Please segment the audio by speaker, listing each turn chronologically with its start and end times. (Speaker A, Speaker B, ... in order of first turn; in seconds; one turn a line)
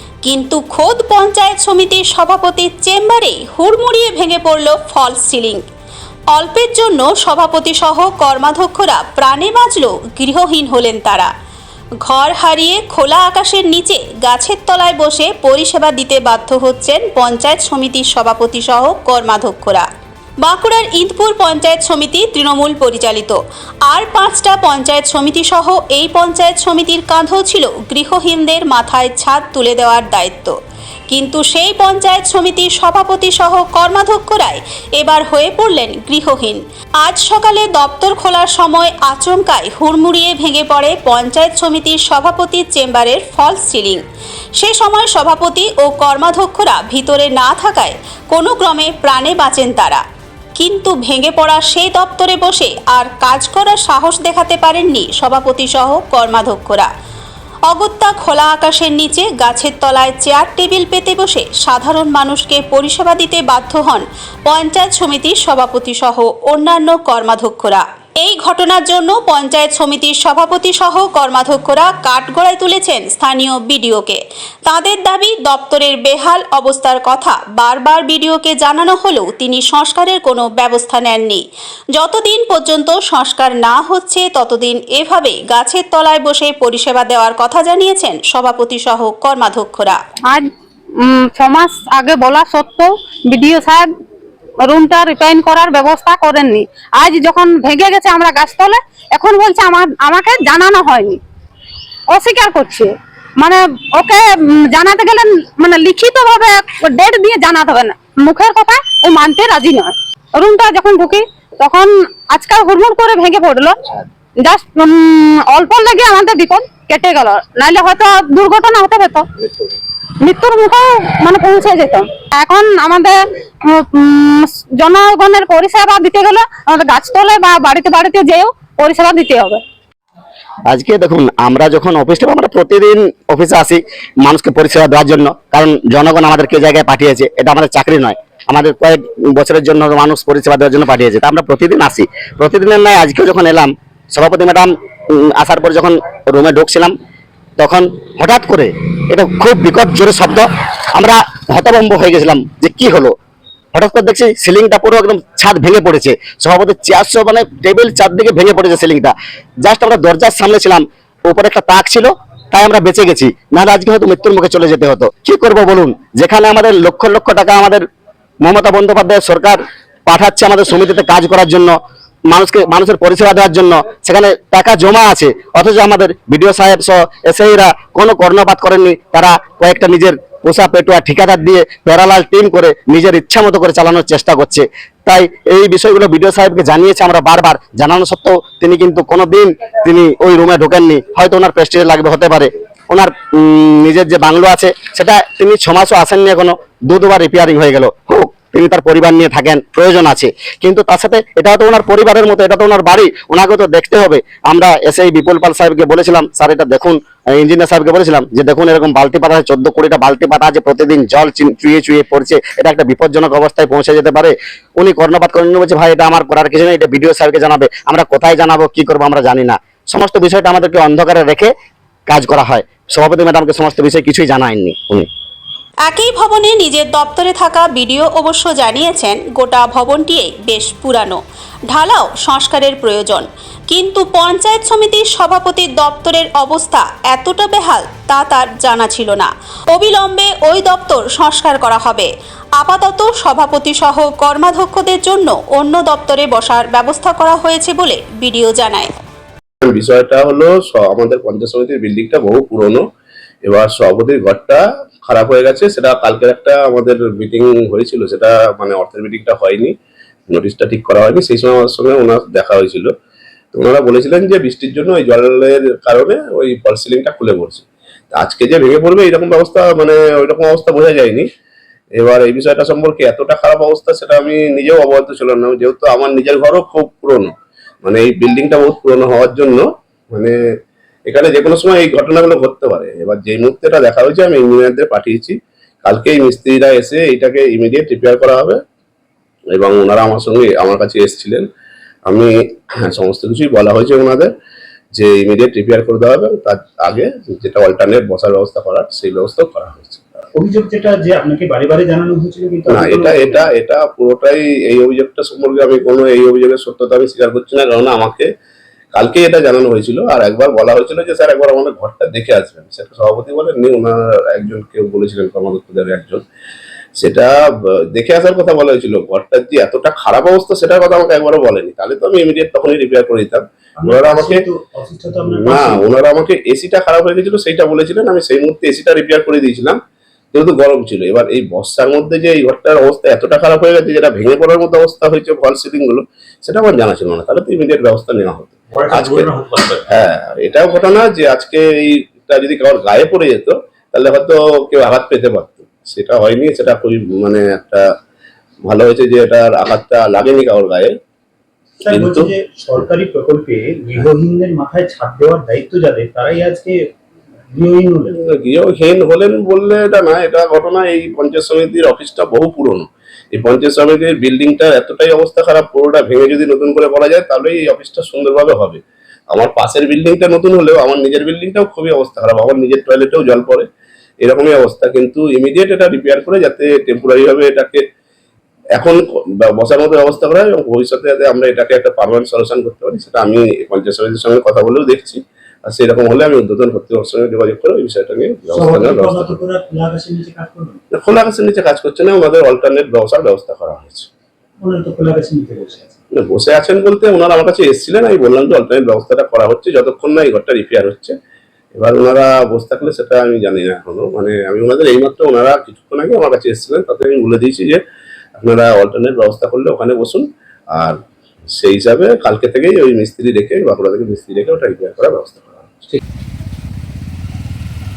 Speaker A: 0.2-5.6
Speaker A: 6.3-11.3
Speaker A: 12.0-19.9
Speaker A: 20.4-30.6
Speaker A: 31.1-44.0
Speaker A: 44.6-50.0
Speaker A: 50.6-56.9
Speaker A: 57.7-81.4
Speaker A: 81.9-90.0
Speaker B: 90.3-93.9
Speaker B: 94.6-101.2
Speaker B: 102.1-113.8
Speaker B: 114.4-119.3
Speaker B: 120.2-129.6
Speaker C: 130.7-146.9
Speaker C: 147.6-153.1
Speaker C: 153.7-167.9
Speaker C: 168.4-221.5
Speaker C: 222.1-225.1
Speaker A: 225.9-248.9
Speaker D: 249.6-252.8
Speaker D: 253.4-259.7
Speaker D: 260.3-262.9
Speaker D: 263.5-271.3
Speaker D: 272.0-277.3
Speaker D: 277.8-280.4
Speaker D: 281.1-288.6
Speaker D: 289.5-291.4
Speaker D: 292.1-294.3
Speaker D: 294.9-300.2
Speaker E: 300.3-303.4
Speaker D: 302.7-308.3
Speaker D: 308.9-316.2
Speaker D: 317.0-317.3
Speaker D: 317.9-324.4
Speaker E: 323.8-325.9
Speaker D: 325.4-329.8
Speaker D: 330.3-339.3
Speaker E: 338.7-339.8
Speaker D: 339.9-347.8
Speaker D: 348.6-350.9
Speaker E: 351.8-356.8
Speaker D: 351.9-352.3
Speaker E: 357.5-358.2
Speaker D: 358.2-368.8
Speaker D: 369.3-373.6
Speaker D: 374.2-377.8
Speaker D: 378.8-389.4
Speaker E: 388.5-390.8
Speaker D: 390.9-394.1
Speaker E: 394.6-395.9
Speaker D: 396.1-401.1
Speaker D: 401.8-407.8
Speaker D: 408.4-411.0
Speaker D: 411.6-415.9